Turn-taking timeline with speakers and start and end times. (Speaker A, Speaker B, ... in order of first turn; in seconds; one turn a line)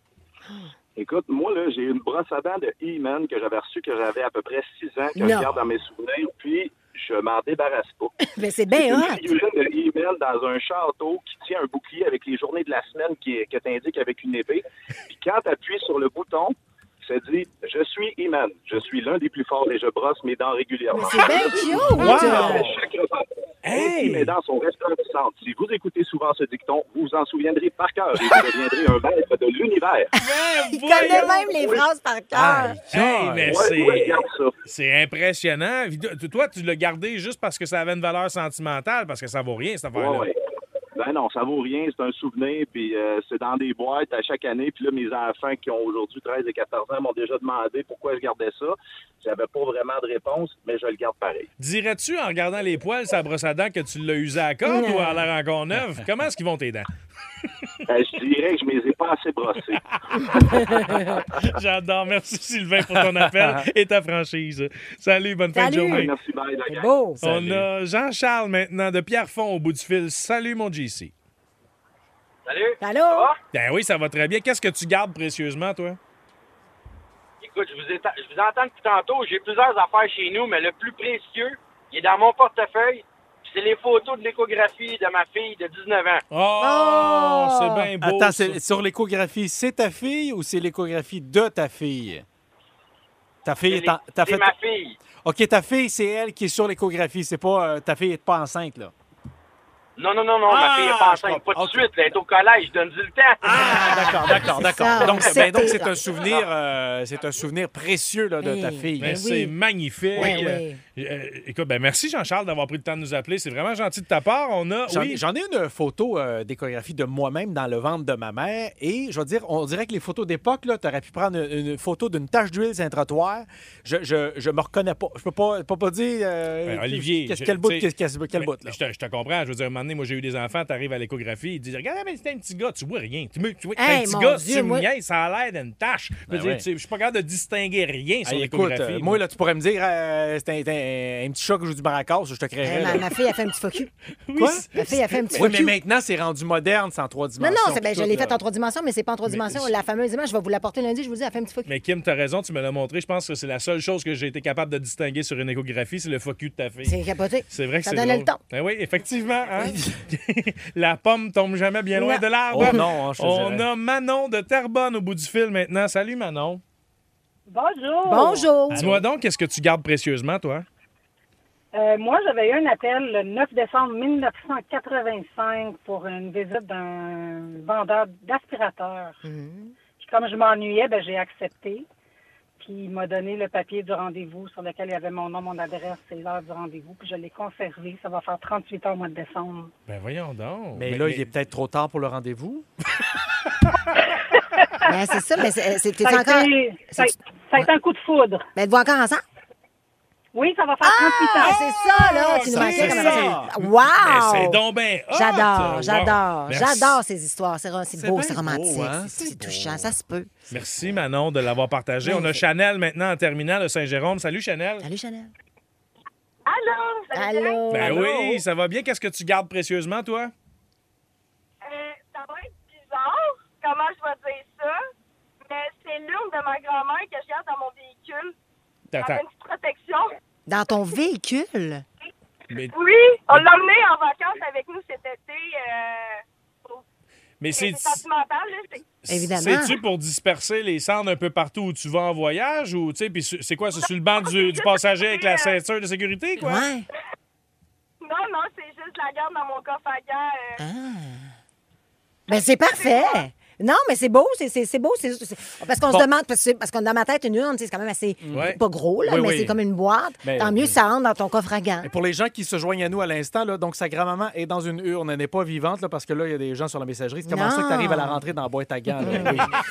Speaker A: 1.0-8.1
Speaker B: 5.2-5.5
Speaker B: 8.2-9.3
Speaker A: 8.7-30.1
Speaker B: 20.9-22.7
Speaker C: 21.9-22.8
Speaker C: 23.6-24.3
Speaker C: 30.2-31.8
Speaker B: 30.2-32.8
Speaker D: 32.3-33.7
Speaker C: 32.9-40.3
Speaker A: 33.5-34.5
Speaker A: 39.9-40.4
Speaker A: 41.0-51.5
Speaker C: 51.6-56.9
Speaker B: 54.6-55.2
Speaker A: 57.9-59.8
Speaker C: 60.3-66.1
Speaker A: 60.5-61.2
Speaker D: 63.0-63.7
Speaker B: 65.5-66.1
Speaker A: 65.9-66.9
Speaker B: 66.7-67.2
Speaker D: 67.2-67.6
Speaker C: 67.2-71.1
Speaker E: 72.5-73.4
Speaker B: 72.8-73.3
Speaker C: 73.5-76.0
Speaker E: 77.4-86.2
Speaker C: 86.3-88.6
Speaker B: 86.6-87.9
Speaker D: 88.0-92.2
Speaker D: 93.4-94.5
Speaker E: 93.6-95.0
Speaker D: 95.2-98.9
Speaker E: 100.0-103.9
Speaker D: 100.5-101.9
Speaker D: 103.4-109.2
Speaker B: 103.5-105.9
Speaker E: 106.2-106.5
Speaker B: 108.4-109.5
Speaker C: 109.0-115.2
Speaker B: 110.2-110.8
Speaker D: 114.9-128.8
Speaker C: 126.7-139.2
Speaker B: 133.8-134.9
Speaker D: 136.3-136.6
Speaker D: 138.2-143.1
Speaker B: 142.6-143.9
Speaker C: 144.3-145.4
Speaker D: 144.3-144.6
Speaker B: 144.7-145.7
Speaker D: 145.3-148.4
Speaker B: 147.4-151.7
Speaker C: 151.7-156.9
Speaker B: 156.8-158.4
Speaker C: 157.5-166.6
Speaker D: 159.6-160.0
Speaker B: 161.9-162.8
Speaker D: 162.5-163.7
Speaker F: 167.5-168.5
Speaker B: 168.0-168.8
Speaker D: 168.7-169.1
Speaker C: 168.7-170.6
Speaker F: 171.7-179.2
Speaker B: 179.2-179.7
Speaker F: 180.0-181.8
Speaker F: 182.6-189.7
Speaker C: 189.9-191.2
Speaker D: 190.8-192.7
Speaker F: 194.4-194.8
Speaker B: 194.8-197.7
Speaker F: 196.0-198.5
Speaker B: 198.5-199.2
Speaker F: 200.3-201.6
Speaker B: 200.8-204.6
Speaker C: 201.5-207.0
Speaker D: 202.2-203.5
Speaker B: 205.1-210.3
Speaker D: 207.9-209.9
Speaker D: 210.5-211.0
Speaker C: 210.5-214.8
Speaker B: 212.0-212.4
Speaker B: 214.8-215.3
Speaker G: 216.4-217.7
Speaker B: 217.1-218.1
Speaker C: 217.7-220.3
Speaker D: 217.8-218.4
Speaker G: 221.6-224.8
Speaker G: 225.4-228.3
Speaker C: 228.9-229.2
Speaker G: 229.0-230.1
Speaker B: 230.5-231.8
Speaker G: 232.7-236.8
Speaker C: 237.4-238.0
Speaker G: 237.5-238.9
Speaker C: 239.0-246.6
Speaker B: 239.1-239.8
Speaker G: 243.8-245.6
Speaker B: 246.4-246.8
Speaker G: 248.0-250.6
Speaker B: 250.6-251.3
Speaker B: 252.3-261.9
Speaker G: 252.3-253.3
Speaker D: 258.2-259.6
Speaker C: 258.3-258.6
Speaker D: 260.2-260.8
Speaker D: 261.8-269.5
Speaker B: 267.3-268.2
Speaker B: 269.0-269.4